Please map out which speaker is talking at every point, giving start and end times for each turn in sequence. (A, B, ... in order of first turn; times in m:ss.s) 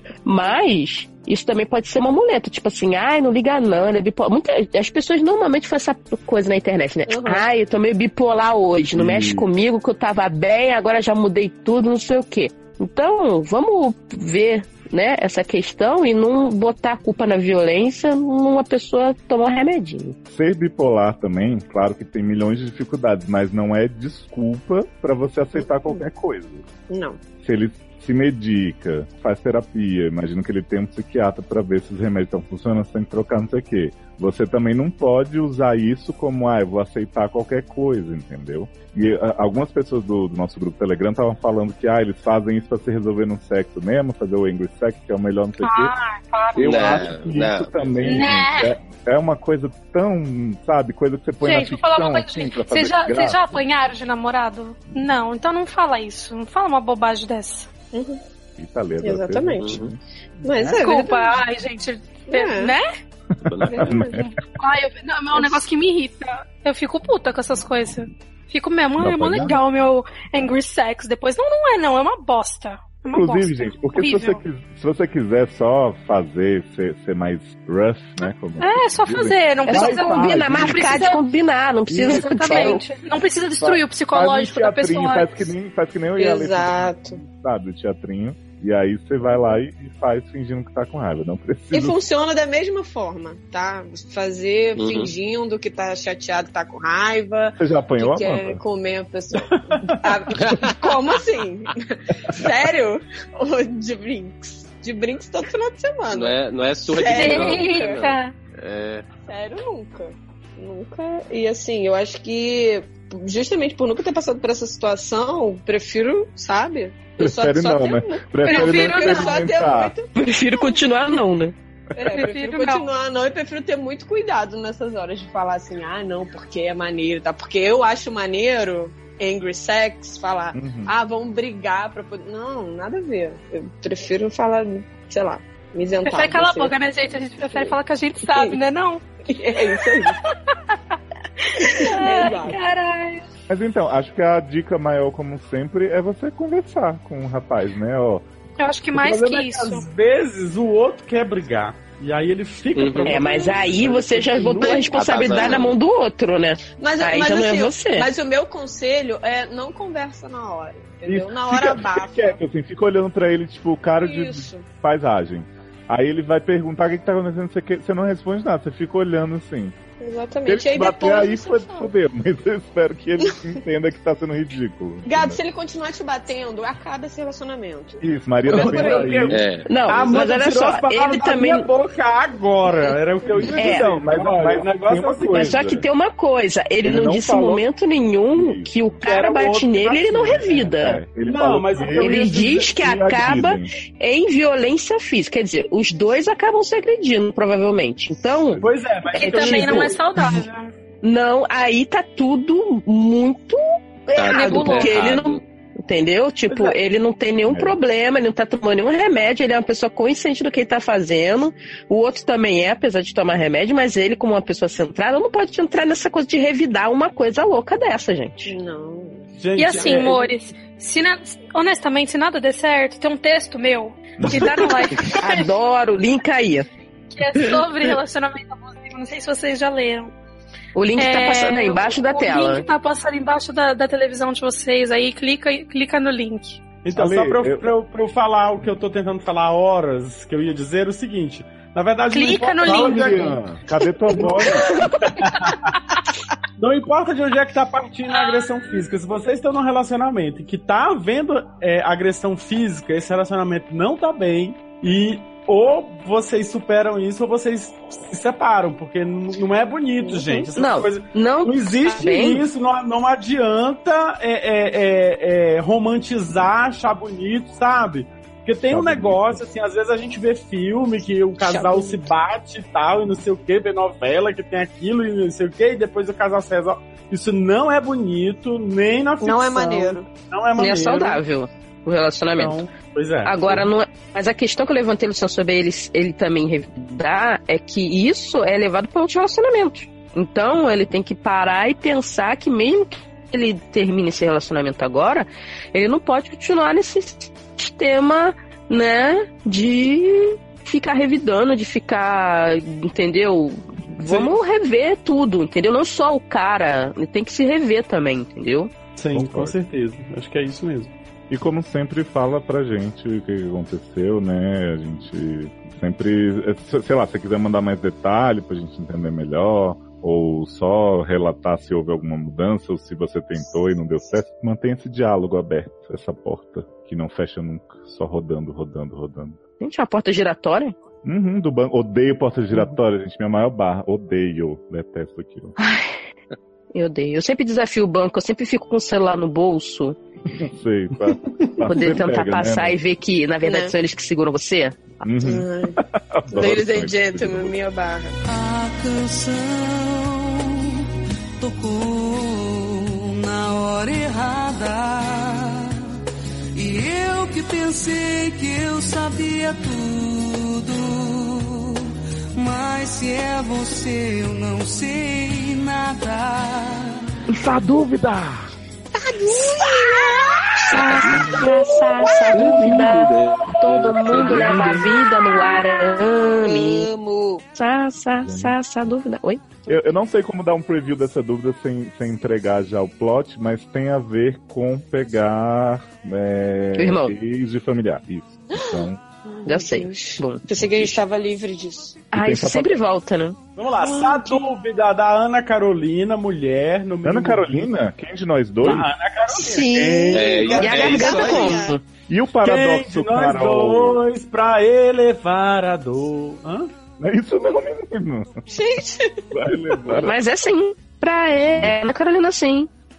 0:00.2-0:20.2 A
0:07.1-0:07.4 B
0:09.0-0:09.4 C
0:20.3-0:26.6 C
0:25.6-0:26.0 B
0:26.9-0:27.2 B
0:27.4-0:46.0 C
0:45.6-0:47.1 D
0:46.6-0:53.6 C
0:46.6-0:48.2 E
0:48.0-0:48.7 D
0:51.4-0:57.7 D
0:57.9-0:58.2 B
0:58.6-1:00.0 C
0:59.0-0:59.8 B
0:59.6-0:59.9 E
1:00.4-1:01.4 B
1:00.6-1:02.9 D
1:02.3-1:02.8 B
1:03.4-1:04.3 C
1:03.5-1:03.9 E
1:03.7-1:04.2 B
1:04.6-1:14.4 D
1:09.0-1:09.6 C
1:13.1-1:21.0 C
1:18.6-1:21.2 D
1:19.7-1:22.8 A
1:21.9-1:22.8 C
1:22.0-1:25.5 D
1:23.6-1:32.0 C
1:26.2-1:27.2 B
1:31.7-1:48.0 B
1:34.8-1:35.1 E
1:37.6-1:38.6 C
1:39.5-1:39.9 F
1:46.1-1:49.0 E
1:47.0-1:48.3 D
1:49.3-2:00.8 B
1:57.2-1:59.9 C
1:58.4-1:59.4 D
2:00.2-2:01.6 A
2:01.9-2:16.7 B
2:02.1-2:02.8 D
2:10.5-2:10.9 C
2:16.1-2:19.0 D
2:17.6-2:18.6 B
2:19.3-2:20.2 B
2:19.8-2:23.2 D
2:21.6-2:22.6 B
2:23.5-2:28.2 C
2:28.6-2:29.9 D
2:29.0-2:34.9 F
2:32.8-2:33.2 E
2:33.0-2:38.1 A
2:34.6-2:35.7 B
2:34.9-2:35.7 E
2:36.8-2:42.4 B
2:41.1-2:49.8 C
2:44.0-2:44.7 B
2:50.0-2:51.9 B
2:50.5-2:55.4 C
2:55.1-2:58.0 B
2:58.0-2:59.4 C
2:58.5-3:05.6 F
2:58.6-2:59.2 B
2:59.3-2:59.7 E
2:59.6-3:01.7 A
3:03.4-3:05.9 C
3:03.6-3:03.9 A
3:05.3-3:11.0 A
3:06.8-3:07.7 C
3:08.3-3:09.0 C
3:09.0-3:12.7 F
3:10.7-3:13.7 C
3:11.9-3:19.9 A
3:18.6-3:20.1 F
3:19.1-3:20.7 D
3:21.0-3:38.6 A
3:24.2-3:25.4 E
3:24.3-3:25.0 D
3:26.5-3:26.8 F
3:27.5-3:27.8 C
3:38.5-3:39.9 B
3:39.4-3:40.3 F
3:39.6-3:45.5 D
3:44.2-3:44.5 C
3:45.1-3:46.7 A
3:47.1-3:50.1 D
3:50.8-3:52.7 A
3:51.0-3:56.6 D
3:56.8-4:03.4 F
3:56.9-3:57.7 C
4:02.1-4:03.3 D
4:02.6-4:04.7 C
4:04.2-4:04.5 F
4:05.0-4:05.8 F
4:06.6-4:41.2 F
4:08.2-4:08.4 D
4:20.0-4:20.5 B
4:20.5-4:22.4 A
4:28.7-4:29.4 C
4:31.4-4:32.1 B
4:39.2-4:40.1 B
4:40.6-4:42.6 A
4:42.4-4:43.7 F
4:43.2-5:08.7 A
5:04.0-5:04.3 F
5:09.0-5:10.9 F
5:09.1-5:09.6 C
5:11.3-5:29.4 C
5:29.6-5:30.8 A
5:31.0-5:35.6 C
5:35.6-5:36.0 A
5:36.7-5:40.0 A
5:40.4-5:42.8 C
5:41.6-5:44.8 A
5:43.4-5:43.7 B
5:45.0-5:47.6 C
5:45.1-5:48.2 B
5:48.2-5:50.8 G
5:51.4-5:55.8 G
5:56.6-6:07.0 G
6:07.3-6:08.0 A
6:07.6-6:08.3 C
6:09.0-6:12.6 B
6:10.7-6:16.9 A
6:10.8-6:11.5 E
6:12.3-6:14.8 E
6:14.2-6:14.7 C
6:16.4-6:17.5 B
6:17.6-6:19.4 A
6:18.2-6:18.6 C
6:19.7-6:29.0 C
6:26.8-6:27.1 A
6:28.5-6:32.0 B
6:29.4-6:30.4 A
6:32.1-6:33.4 A
6:32.2-6:32.8 C
6:33.6-6:37.5 F
6:33.8-6:34.5 B
6:37.0-6:38.9 C
6:38.6-6:40.7 F
6:39.3-6:41.8 B
6:39.4-6:41.8 A
6:40.1-6:41.6 E
6:42.1-6:44.0 C
6:42.4-6:46.7 F
6:47.0-6:48.3 C
6:48.5-6:49.3 B
6:49.3-6:50.2 C
6:50.0-6:52.7 A
6:51.5-6:51.8 C